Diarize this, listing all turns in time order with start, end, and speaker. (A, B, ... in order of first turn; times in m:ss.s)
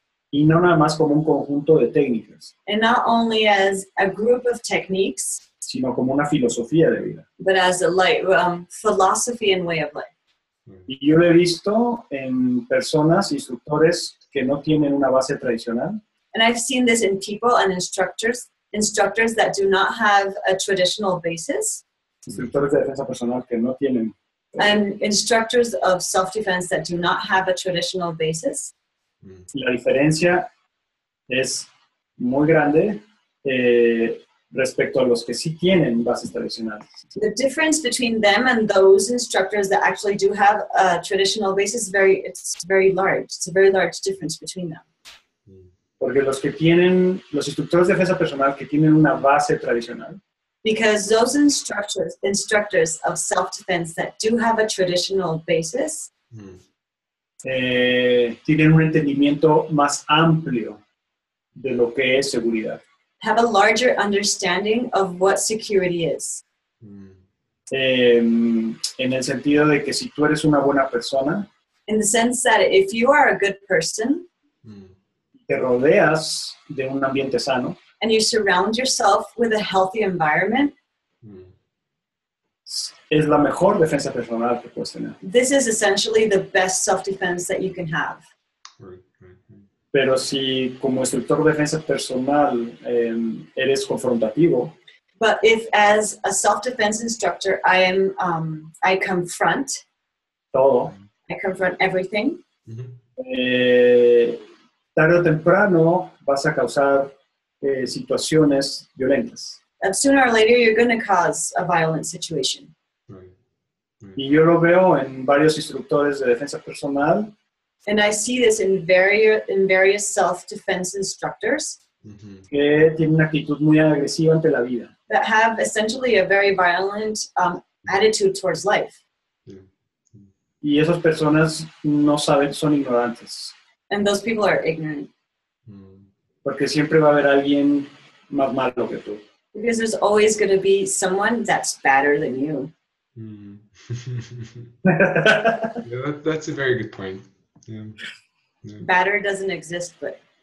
0:00.3-0:02.5 A
0:02.6-0:05.4 B
0:05.6-0:07.2 A
0:07.4-0:10.1 B
0:10.9-0:16.0 A
0:16.3-0:21.8 B
0:22.3-0:24.1 A
0:24.6-0:28.7 B
0:29.2-0:29.5 C
0:29.5-0:30.5 A
0:31.3-0:36.9 A
0:37.2-0:44.8 B
0:46.0-0:50.2 A
0:50.6-0:56.1 B
0:56.3-0:56.6 C
0:57.4-1:00.8 A
1:01.6-1:02.8 A
1:03.2-1:06.4 B
1:06.8-1:07.2 C
1:07.7-1:11.5 A
1:11.9-1:14.2 B
1:14.6-1:14.9 C
1:15.4-1:17.8 A
1:18.0-1:20.7 B
1:21.2-1:21.5 C
1:22.6-1:25.2 A
1:25.2-1:28.2 B
1:28.8-1:29.6 C
1:29.9-1:34.7 A
1:35.2-1:39.8 B
1:40.5-1:40.9 A
1:41.3-1:42.4 B
1:42.6-1:43.0 C
1:43.2-1:44.4 A
1:44.9-1:49.6 A
1:49.8-1:52.7 B
1:53.1-1:53.3 C
1:54.2-1:57.3 A
1:57.8-2:01.8 B
2:02.0-2:02.5 C
2:02.5-2:04.9 A
2:05.1-2:08.9 B
2:09.4-2:10.3 C
2:10.6-2:13.5 A
2:13.9-2:15.1 B
2:15.7-2:16.1 C
2:16.4-2:19.2 A
2:19.5-2:22.7 B
2:23.2-2:24.7 C
2:24.8-2:25.8 A
2:25.8-2:27.9 C
2:28.8-2:30.2 B